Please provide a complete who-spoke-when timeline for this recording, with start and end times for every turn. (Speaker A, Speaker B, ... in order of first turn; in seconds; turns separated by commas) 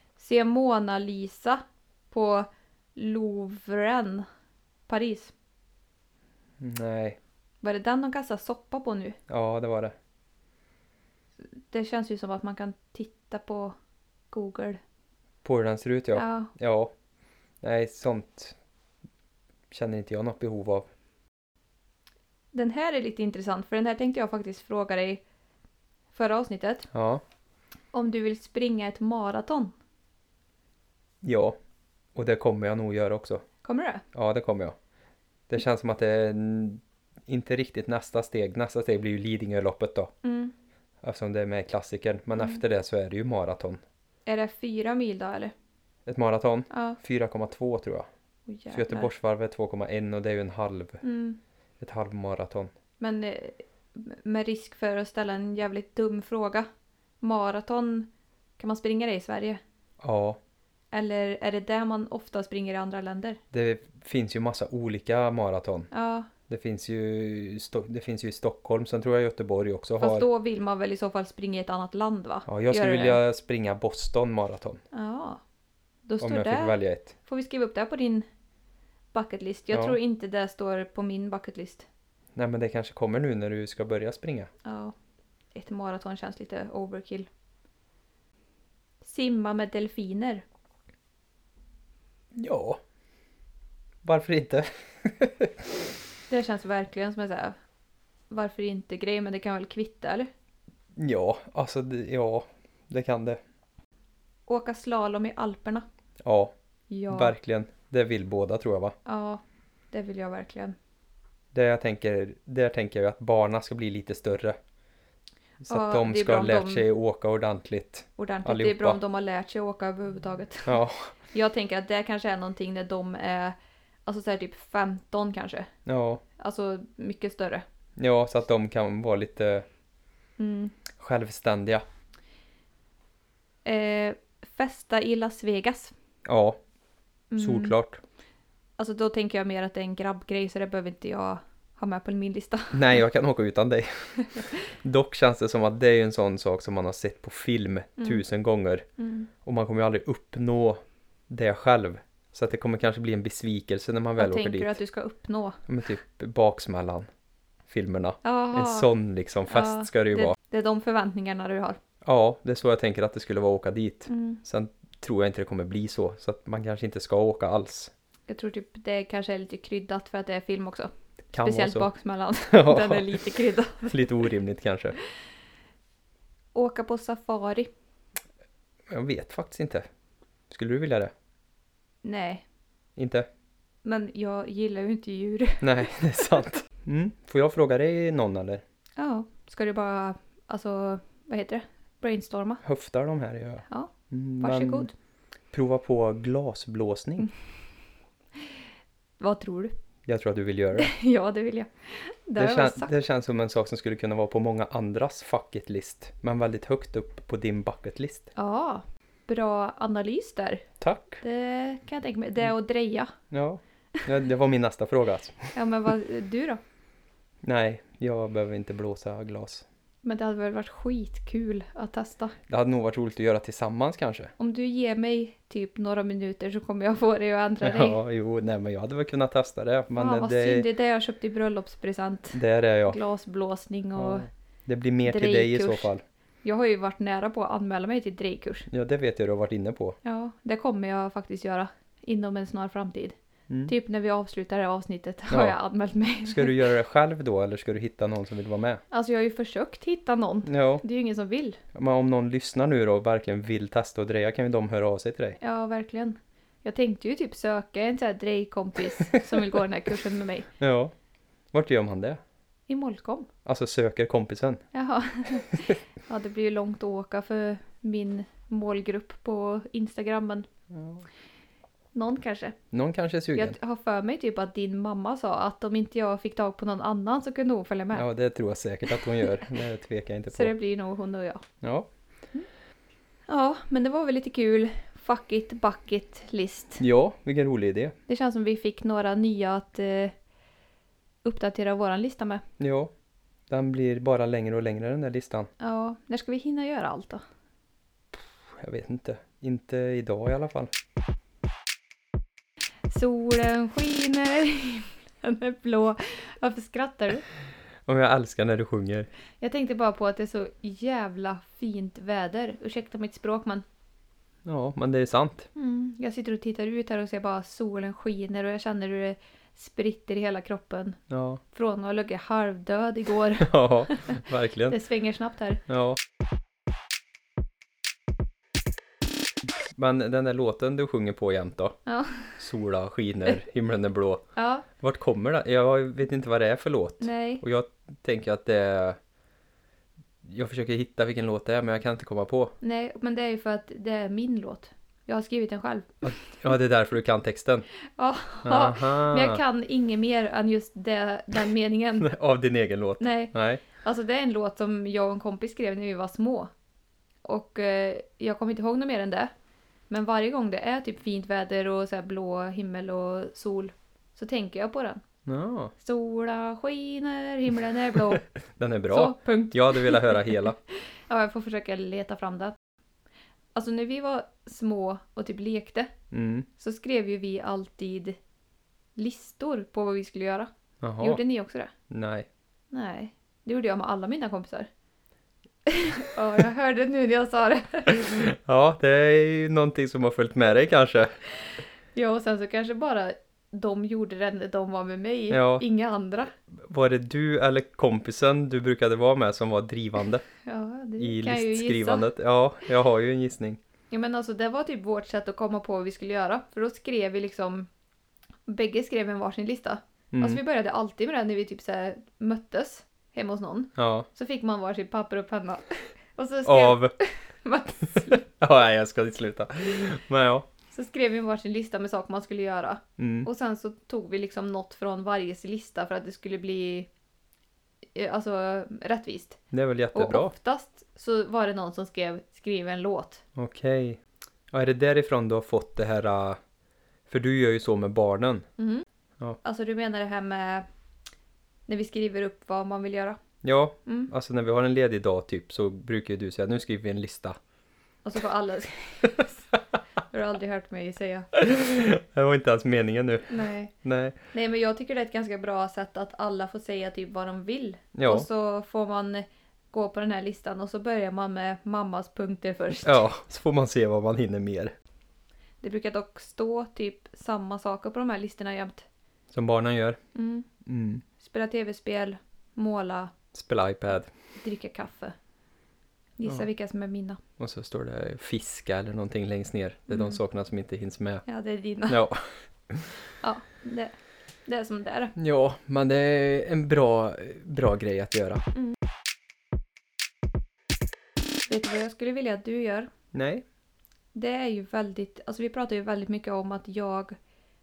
Speaker A: 0.2-4.3, Speaker A: 4.9-5.3, Speaker B: 6.6-7.2, Speaker A: 7.6-9.2, Speaker B: 9.3-9.9, Speaker A: 11.7-13.8, Speaker A: 14.3-14.8, Speaker B: 15.4-16.9, Speaker A: 16.1-16.5, Speaker B: 17.6-18.6, Speaker B: 19.7-20.9, Speaker A: 22.5-25.2, Speaker A: 26.1-26.9, Speaker B: 26.9-27.2, Speaker A: 27.9-29.7, Speaker B: 31.2-31.6, Speaker B: 32.1-33.4, Speaker A: 33.6-34.0, Speaker B: 34.1-34.8, Speaker B: 35.5-40.1, Speaker A: 40.2-40.5, Speaker B: 41.0-43.8, Speaker A: 44.3-45.5, Speaker B: 46.1-48.1, Speaker A: 46.7-47.0, Speaker A: 48.5-49.1, Speaker B: 48.7-51.0, Speaker A: 51.0-51.4, Speaker B: 51.8-52.7, Speaker A: 53.0-56.7, Speaker A: 57.2-59.6, Speaker B: 60.0-60.4, Speaker A: 60.9-63.4, Speaker B: 63.5-65.9, Speaker A: 65.9-66.3, Speaker B: 66.5-70.3, Speaker A: 70.0-73.2, Speaker B: 72.5-74.8, Speaker A: 74.9-75.4, Speaker A: 76.1-78.3, Speaker B: 76.2-77.1, Speaker A: 79.1-81.9, Speaker B: 79.7-80.0, Speaker B: 82.3-84.5, Speaker A: 84.6-84.9, Speaker A: 85.5-87.3, Speaker A: 89.0-90.4, Speaker B: 92.3-92.8, Speaker B: 94.0-95.7, Speaker A: 96.3-97.6, Speaker A: 98.3-100.3, Speaker B: 101.0-103.4, Speaker A: 104.5-105.9, Speaker B: 106.2-106.5, Speaker A: 106.9-107.3, Speaker B: 107.1-109.0, Speaker A: 109.1-110.8, Speaker B: 111.5-114.6, Speaker B: 115.6-119.0, Speaker A: 115.7-116.9, Speaker A: 118.2-120.8, Speaker B: 120.7-121.1, Speaker A: 121.3-125.7, Speaker B: 125.9-126.2, Speaker A: 126.4-127.7, Speaker B: 128.0-129.7, Speaker A: 130.4-130.7, Speaker B: 131.0-131.8, Speaker A: 133.7-135.9, Speaker B: 136.2-136.6, Speaker A: 137.3-137.8, Speaker B: 137.4-138.0, Speaker A: 138.8-142.9, Speaker B: 142.7-148.9, Speaker A: 149.0-149.3, Speaker B: 149.4-154.8, Speaker A: 154.2-155.6, Speaker B: 155.7-157.1, Speaker B: 157.7-160.4, Speaker A: 158.2-158.9, Speaker A: 159.5-161.8, Speaker B: 162.0-167.9, Speaker A: 164.1-164.4, Speaker A: 168.3-174.1, Speaker B: 171.3-171.9, Speaker B: 172.5-175.0, Speaker A: 176.6-177.7, Speaker B: 178.9-179.9, Speaker B: 180.5-181.1, Speaker A: 182.0-182.4, Speaker B: 183.0-183.3, Speaker A: 183.8-186.3, Speaker B: 185.6-188.6, Speaker A: 189.0-192.6, Speaker B: 192.6-194.9, Speaker A: 193.7-194.9, Speaker B: 195.5-197.3, Speaker A: 199.2-199.8, Speaker B: 200.1-200.9, Speaker A: 200.8-202.9, Speaker B: 202.4-208.3, Speaker A: 208.4-210.7, Speaker B: 210.8-211.2, Speaker A: 211.2-213.1, Speaker B: 213.3-215.6, Speaker A: 215.5-216.6, Speaker B: 217.4-219.7, Speaker A: 220.0-222.4, Speaker B: 222.5-224.3, Speaker A: 224.4-228.0, Speaker B: 227.6-230.7, Speaker A: 229.9-234.3, Speaker B: 232.3-233.0, Speaker B: 234.0-236.0, Speaker A: 235.1-235.9, Speaker A: 236.4-238.7, Speaker B: 238.7-240.0, Speaker A: 240.0-246.7, Speaker B: 245.3-245.6, Speaker B: 246.2-248.8, Speaker A: 248.9-251.6, Speaker B: 250.5-250.8, Speaker B: 251.7-255.4, Speaker A: 255.4-260.5, Speaker B: 260.6-260.9, Speaker B: 261.5-262.2, Speaker A: 262.7-263.3, Speaker B: 263.4-264.6, Speaker A: 264.7-270.5, Speaker B: 270.7-271.1, Speaker A: 271.9-272.6, Speaker B: 272.7-273.6, Speaker A: 273.4-278.1, Speaker B: 277.9-280.5, Speaker A: 278.9-279.3, Speaker A: 280.3-281.4, Speaker B: 281.6-281.9, Speaker A: 283.3-286.8, Speaker B: 286.8-287.9, Speaker A: 288.1-290.1, Speaker A: 291.2-292.4, Speaker B: 292.6-292.9, Speaker B: 293.5-295.5, Speaker A: 295.6-297.2, Speaker B: 298.6-300.7, Speaker A: 302.9-307.2, Speaker B: 307.9-309.1, Speaker A: 309.4-313.6, Speaker B: 314.4-315.5, Speaker A: 315.6-321.0, Speaker B: 321.1-321.4, Speaker A: 321.5-325.6, Speaker B: 323.4-324.8, Speaker B: 325.7-326.0, Speaker B: 329.7-331.8, Speaker A: 331.9-332.4, Speaker B: 332.4-334.2, Speaker A: 334.4-334.7, Speaker B: 334.8-339.0, Speaker A: 337.0-337.4, Speaker B: 340.2-342.5, Speaker A: 342.6-346.4, Speaker B: 346.0-347.7, Speaker A: 348.0-352.1, Speaker B: 348.4-349.4, Speaker B: 352.0-353.6, Speaker A: 353.0-356.5, Speaker A: 357.2-359.3, Speaker A: 359.9-365.0, Speaker B: 365.3-365.7, Speaker A: 365.8-368.3, Speaker B: 367.9-370.6, Speaker A: 368.9-372.6, Speaker A: 373.6-375.9, Speaker B: 376.1-376.5, Speaker A: 376.6-378.2, Speaker A: 379.0-381.7, Speaker B: 380.8-381.2, Speaker B: 381.9-382.3, Speaker A: 382.7-384.7, Speaker A: 385.7-388.1, Speaker B: 387.9-391.1, Speaker A: 391.9-396.3, Speaker B: 395.3-395.6, Speaker B: 396.5-400.2, Speaker A: 400.4-402.1, Speaker B: 401.0-403.6, Speaker A: 403.9-407.7, Speaker A: 408.5-418.2, Speaker B: 410.1-410.4, Speaker B: 413.8-414.1, Speaker B: 416.4-416.9, Speaker B: 418.0-420.5, Speaker A: 420.7-426.9, Speaker B: 423.0-423.3, Speaker A: 427.9-429.4, Speaker B: 429.5-430.3, Speaker A: 429.9-433.2, Speaker B: 433.4-434.0, Speaker B: 434.5-436.4, Speaker B: 437.1-438.5, Speaker A: 438.6-438.9, Speaker A: 439.4-440.7, Speaker A: 441.7-443.2, Speaker B: 443.4-447.4, Speaker A: 443.9-444.1, Speaker A: 448.0-449.5, Speaker A: 450.1-451.4, Speaker B: 451.4-454.2, Speaker A: 453.3-453.7, Speaker A: 454.3-463.0, Speaker B: 457.9-458.3, Speaker B: 462.8-464.8, Speaker A: 465.6-468.9, Speaker B: 469.3-470.0, Speaker A: 470.1-470.5, Speaker B: 470.6-471.0, Speaker A: 471.2-473.1, Speaker B: 473.3-474.1, Speaker A: 474.4-475.1, Speaker A: 476.2-477.2, Speaker B: 477.4-481.2, Speaker A: 479.9-480.2, Speaker A: 481.3-482.0, Speaker B: 481.9-483.0, Speaker A: 483.2-483.9, Speaker A: 484.5-485.1, Speaker B: 485.2-488.4, Speaker A: 491.5-492.9, Speaker B: 493.1-493.4, Speaker A: 494.1-497.2